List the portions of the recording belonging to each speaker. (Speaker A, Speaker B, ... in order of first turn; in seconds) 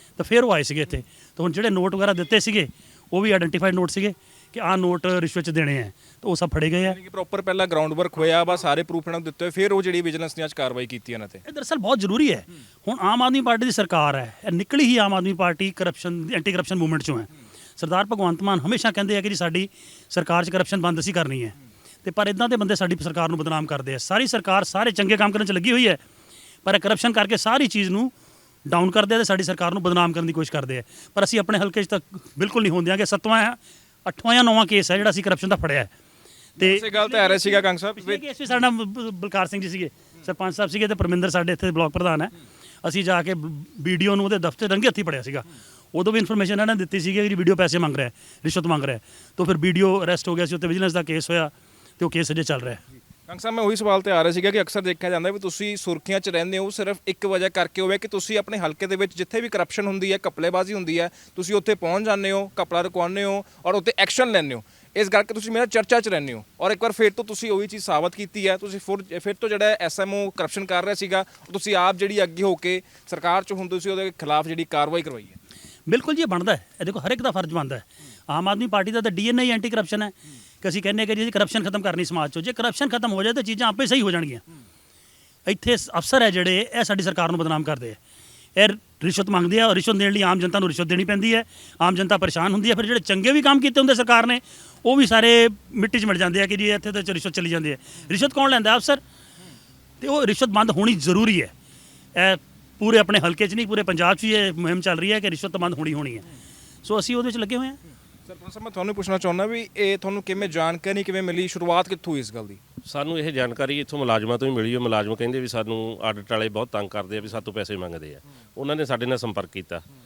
Speaker A: 0.2-7.0, 11.4-26.0, 26.6-28.1, 28.7-35.9, 36.6-42.3, 42.8-52.8, 75.9-84.4, 85.5-88.0, 88.6-99.0, 100.0-101.5, 102.2-106.3, 106.8-107.8
Speaker B: 6.8-11.4, 36.6-38.2, 53.3-75.4, 108.3-112.6
Speaker C: 112.9-119.8